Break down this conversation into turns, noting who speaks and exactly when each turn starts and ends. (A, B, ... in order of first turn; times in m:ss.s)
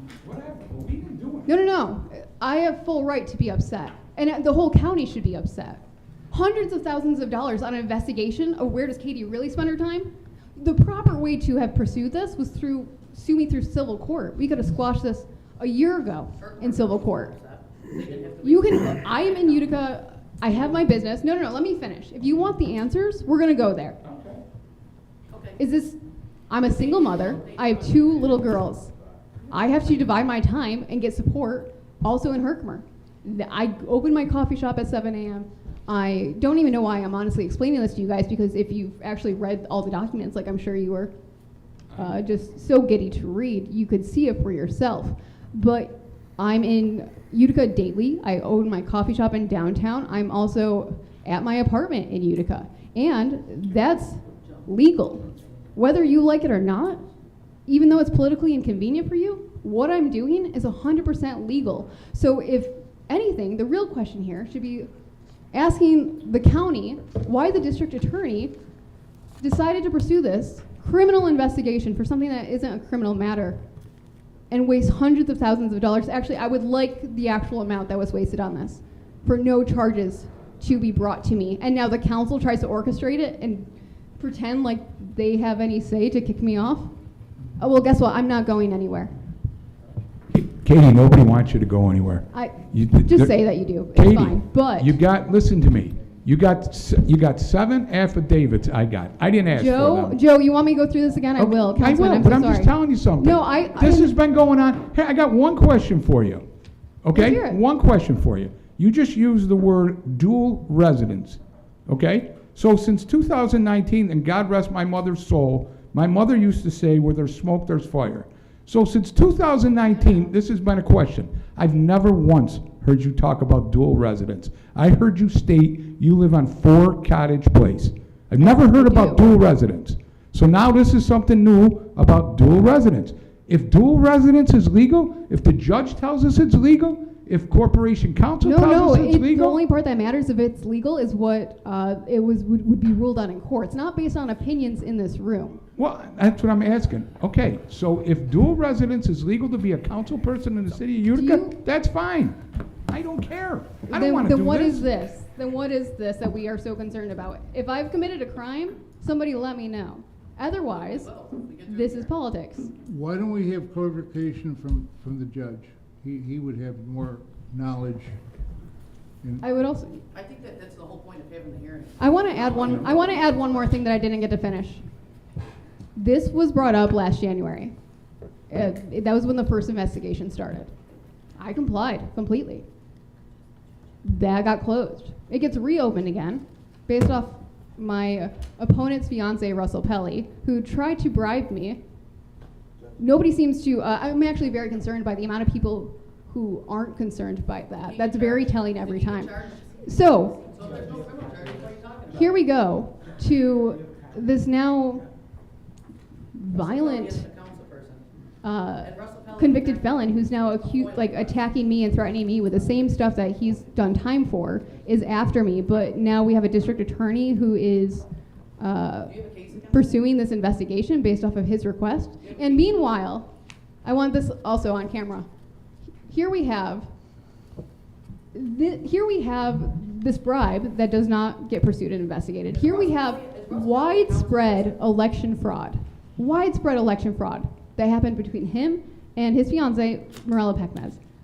0:00.2-0:01.5 A
0:01.5-0:17.3 B
0:16.4-0:19.2 C
0:18.4-0:24.0 B
0:24.0-0:24.4 A
0:25.3-0:25.6 C
0:25.6-0:26.0 B
0:26.5-0:28.9 B
0:26.7-0:27.6 C
0:29.5-0:41.1 B
0:41.9-0:57.0 B
0:57.7-1:04.9 B
1:05.5-1:08.5 B
1:09.4-1:13.6 B
1:14.5-1:23.7 B
1:24.2-1:26.9 B
1:27.6-1:29.1 B
1:30.3-1:33.4 A
1:32.3-1:34.9 B
1:33.9-1:40.2 A
1:39.5-1:44.1 B
1:41.4-1:46.4 A
1:47.0-2:19.6 A
1:47.1-1:47.6 B
2:08.4-2:09.2 B
2:18.4-2:25.6 B
2:25.8-2:32.4 A
2:31.1-2:31.6 B
2:32.9-2:34.9 A
2:33.9-2:42.7 B
2:40.8-2:42.0 C
2:42.8-2:48.1 D
2:49.4-2:50.0 B
2:50.1-2:52.1 C
2:52.0-2:54.8 B
2:56.0-2:57.7 B
2:58.5-3:00.7 B
3:01.4-3:02.6 B
3:04.0-3:11.8 B
3:13.0-3:20.4 B
3:17.9-3:19.8 C
3:20.4-3:22.2 C
3:22.1-3:25.0 B
3:26.3-3:27.2 B
3:26.5-3:28.0 C
3:28.4-3:38.0 B
3:28.8-3:31.2 C
3:38.6-3:43.3 B
3:39.2-3:39.7 C
3:43.8-3:45.2 B
3:46.0-3:46.9 B
3:48.3-4:01.0 B
3:52.5-3:54.7 C